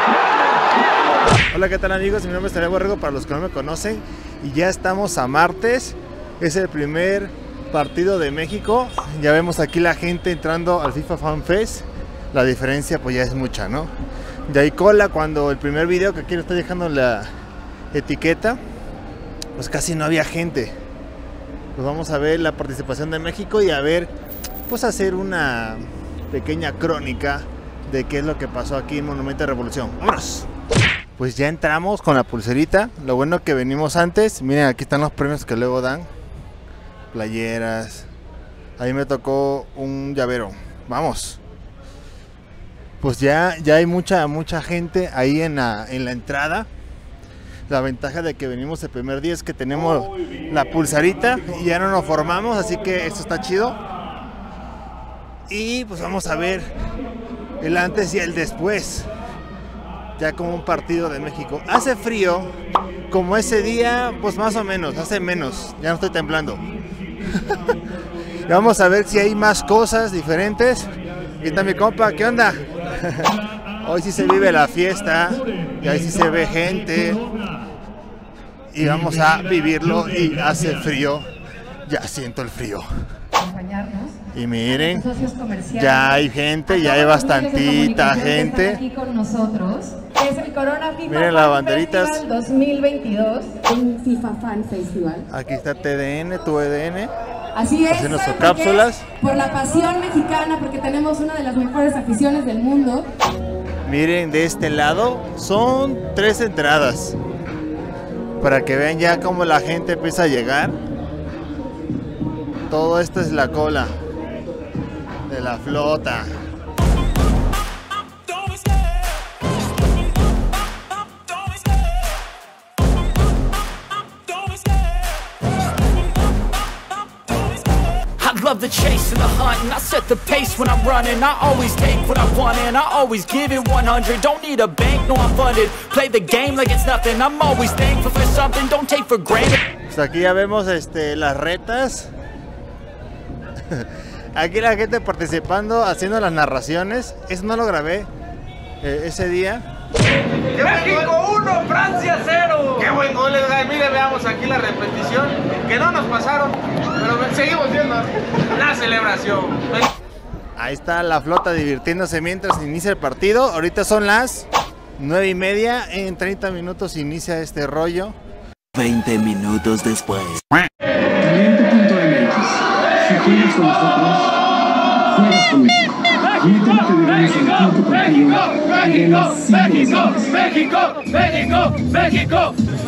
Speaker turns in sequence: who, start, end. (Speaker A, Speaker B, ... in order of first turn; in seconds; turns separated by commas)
Speaker A: 1.5-13.9, Speaker A: 14.5-17.3, Speaker A: 17.9-18.6, Speaker A: 19.6-20.8, Speaker A: 21.8-24.1, Speaker A: 24.7-30.5, Speaker A: 31.2-36.1, Speaker A: 37.1-38.1, Speaker A: 38.8-41.4, Speaker A: 43.0-46.7, Speaker A: 47.7-53.8, Speaker A: 55.5-56.7, Speaker A: 57.6-59.1, Speaker A: 60.2-62.5, Speaker A: 63.1-66.6, Speaker A: 67.3-67.7, Speaker A: 68.5-77.2, Speaker A: 78.7-81.3, Speaker A: 81.9-82.9, Speaker B: 83.4-84.2, Speaker A: 84.3-85.2, Speaker B: 84.9-86.2, Speaker A: 85.7-88.8, Speaker B: 86.7-95.2, Speaker A: 91.0-92.2, Speaker A: 95.3-97.1, Speaker B: 97.5-103.1, Speaker A: 97.9-99.1, Speaker A: 103.9-107.2, Speaker A: 108.4-110.8, Speaker A: 112.7-114.0, Speaker A: 115.3-116.3, Speaker C: 124.3-124.7, Speaker C: 128.2-139.6, Speaker A: 139.9-142.1, Speaker A: 143.7-148.1, Speaker A: 148.8-149.7, Speaker D: 150.6-159.9, Speaker A: 160.6-164.5, Speaker A: 165.0-168.2, Speaker C: 168.8-170.4, Speaker C: 171.3-174.3, Speaker E: 176.8-180.3, Speaker C: 180.0-182.4